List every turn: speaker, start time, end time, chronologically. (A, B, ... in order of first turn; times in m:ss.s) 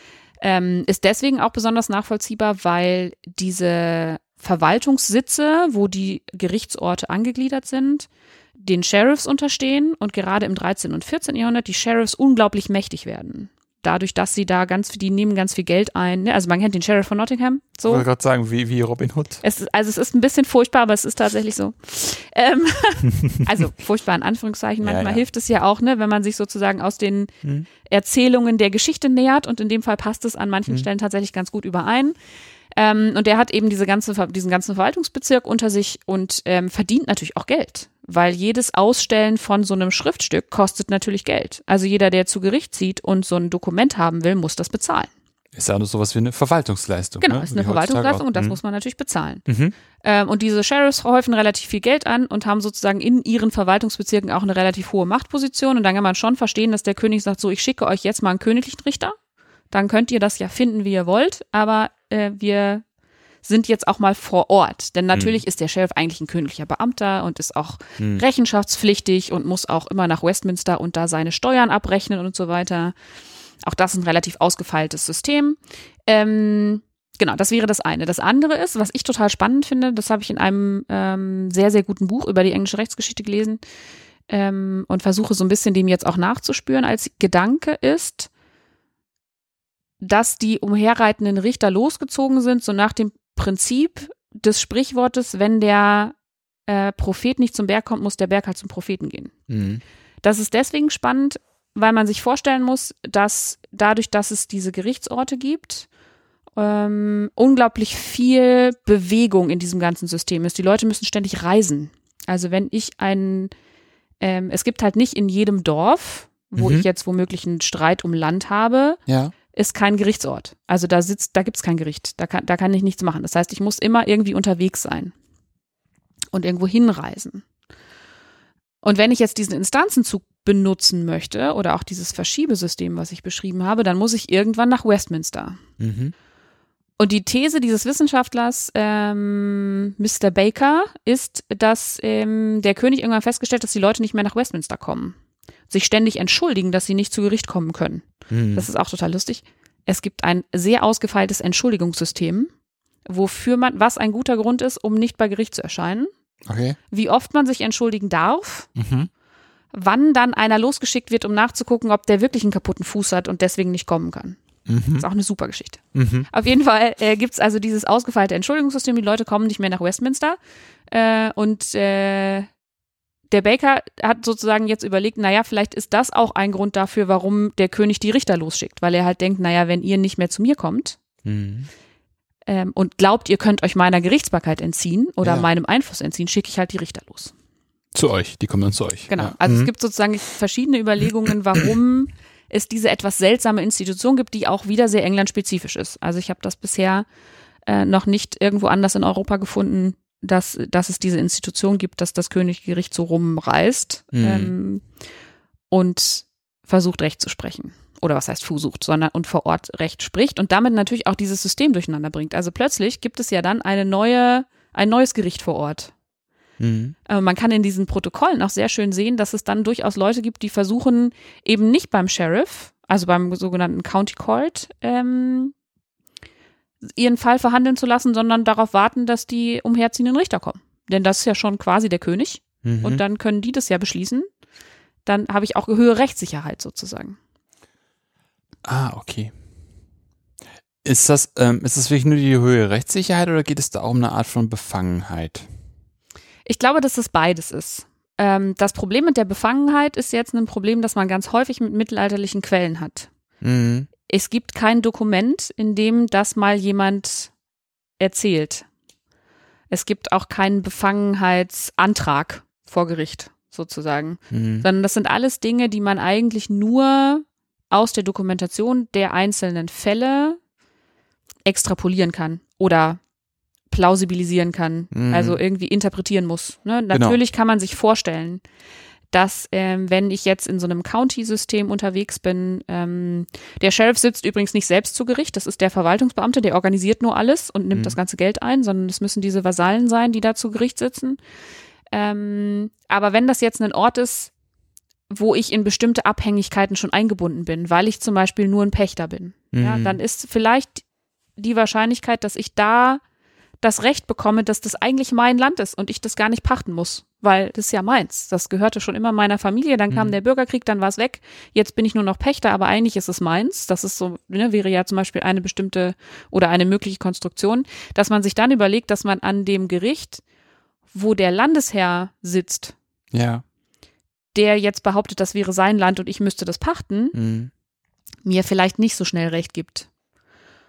0:00.4-0:18.0 A
0:17.8-0:19.4 B
0:19.4-0:27.3 A
0:24.8-0:25.2 B
0:27.8-0:32.1 A
0:32.7-0:45.1 A
0:45.5-0:48.6 B
0:47.2-0:49.4 A
0:49.5-0:49.7 B
0:50.0-0:59.2 A
0:59.7-1:02.8 A
1:03.4-1:12.9 A
1:05.1-1:05.4 B
1:13.6-1:23.6 A
1:24.3-1:28.3 A
1:30.0-1:36.1 A
1:36.7-1:39.3 A
1:39.5-1:39.8 B
1:40.2-1:45.9 A
1:46.6-1:53.5 A
1:54.2-1:59.0 A
1:56.6-1:56.8 B
1:59.1-1:59.3 B
1:59.5-2:05.1 A
2:06.3-2:07.4 A
2:08.8-2:15.6 A
2:15.8-2:16.1 B
2:17.0-2:25.2 A
2:25.7-2:32.5 A
2:28.3-2:28.7 B
2:33.0-2:36.1 A
2:36.5-2:36.8 B
2:36.9-2:38.7 A
2:38.8-2:39.1 B
2:39.7-2:44.4 A
2:44.7-2:45.0 B
2:44.9-2:52.5 A
2:45.9-2:46.3 B
2:53.3-3:01.0 A
3:01.2-3:01.7 B
3:02.5-3:07.3 A
3:05.2-3:05.5 B
3:07.9-3:09.7 B
3:09.1-3:17.0 A
3:17.7-3:24.8 A
3:24.1-3:24.5 B
3:25.7-3:35.9 A
3:36.6-3:36.9 B
3:37.1-3:45.5 A
3:47.0-3:54.3 A
3:52.6-3:53.0 B
3:55.0-3:57.2 A
3:58.6-3:59.3 B
4:00.8-4:05.5 B
4:06.4-4:13.1 A
4:13.4-4:13.9 B
4:14.0-4:17.3 A
4:18.0-4:18.6 A
4:19.7-4:30.4 A
4:24.3-4:24.6 B
4:31.4-4:33.0 A
4:33.7-4:38.4 A
4:34.9-4:35.4 B
4:36.9-4:37.2 B
4:39.1-4:51.2 A
4:51.9-4:54.3 A
4:55.1-5:00.8 A
4:59.5-5:00.0 B
5:01.4-5:03.0 A
5:03.6-5:20.2 A
5:20.9-5:22.7 A
5:23.1-5:23.4 B
5:24.3-5:27.2 A
5:27.1-5:27.5 B
5:28.2-5:29.9 A